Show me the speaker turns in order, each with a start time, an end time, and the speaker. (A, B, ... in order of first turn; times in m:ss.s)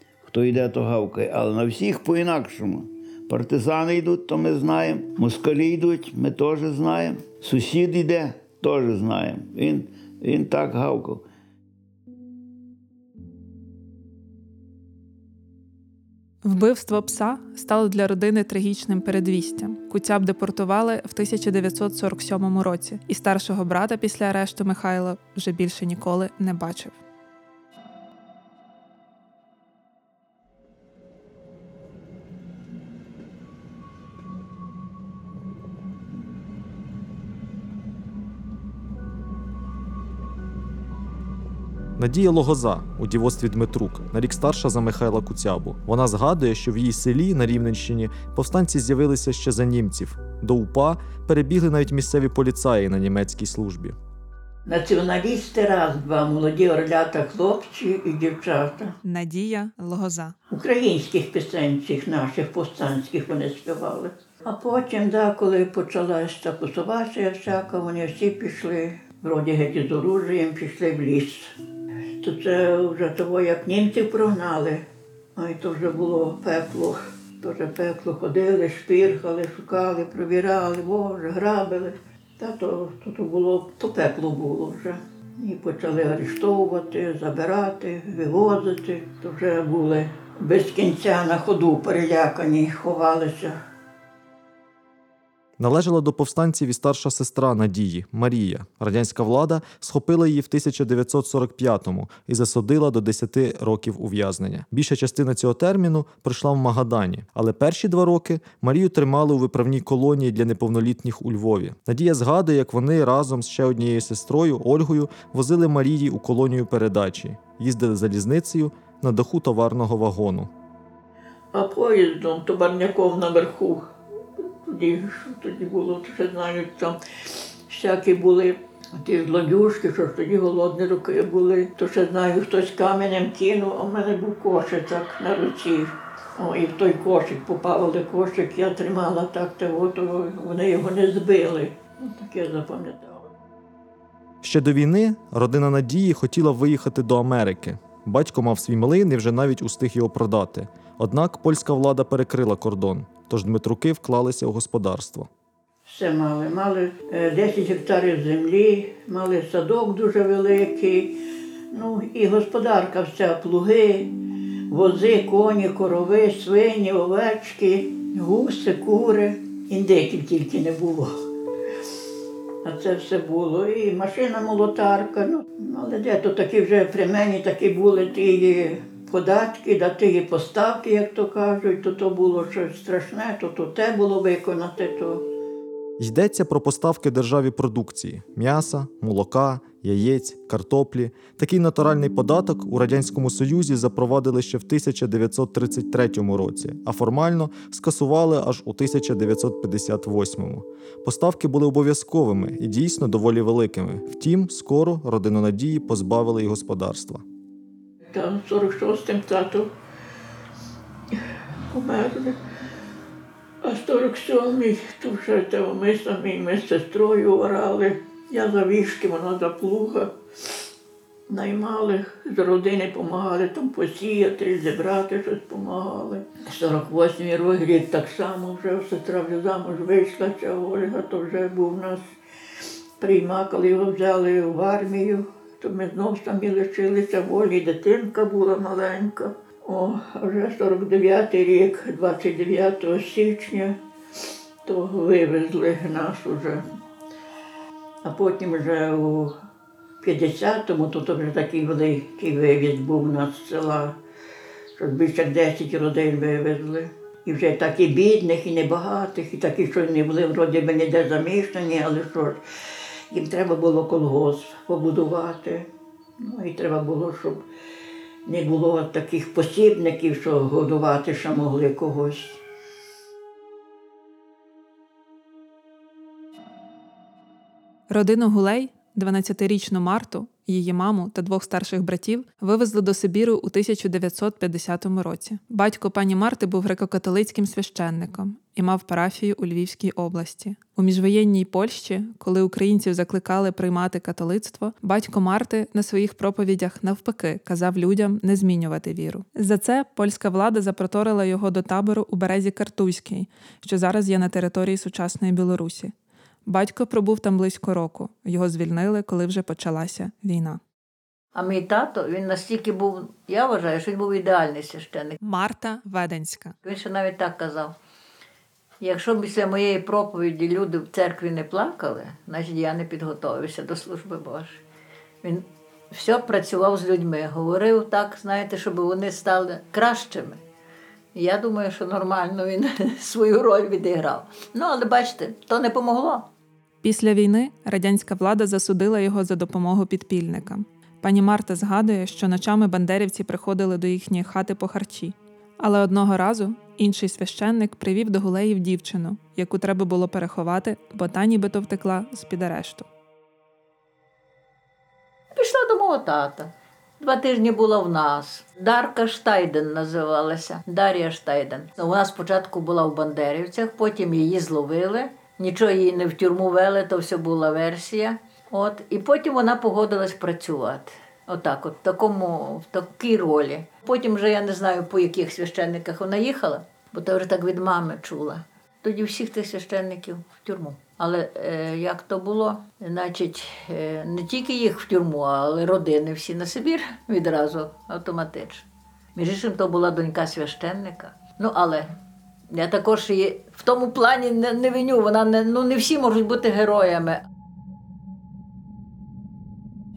0:00.3-0:11.2 A
0:16.4-0:27.0 B
0:42.0-0:54.0 C
0:54.6-0:58.9 D
0:59.0-1:00.4 B
1:00.5-1:11.4 D
1:12.2-1:14.8 D
1:15.4-1:33.5 D
1:35.6-2:00.5 C
2:01.5-2:03.8 D
2:04.7-2:07.0 D
2:07.7-2:23.2 D
2:24.4-2:35.3 C
2:35.9-2:41.1 D
2:41.7-2:44.0 D
2:44.7-2:51.1 D
2:52.6-3:05.2 D
3:06.0-3:27.2 C
3:28.1-3:29.7 D
3:31.7-3:32.3 D
3:33.6-3:40.1 D
3:41.3-3:52.0 D
3:53.0-4:03.7 D
4:04.7-4:06.6 D
4:08.0-4:09.3 D
4:10.0-4:13.9 D
4:14.8-4:22.4 D
4:23.1-4:25.6 D
4:26.2-4:27.4 D
4:28.2-4:32.4 D
4:37.9-5:05.9 B
5:06.4-5:10.6 B
5:11.3-5:15.2 E
5:15.2-5:16.5 B
5:16.6-5:17.7 E
5:18.8-5:24.6 E
5:25.2-5:30.4 E
5:31.1-5:36.2 E
5:36.8-5:52.8 B
5:55.3-6:28.6 E
6:29.2-6:31.9 E
6:32.5-6:37.2 E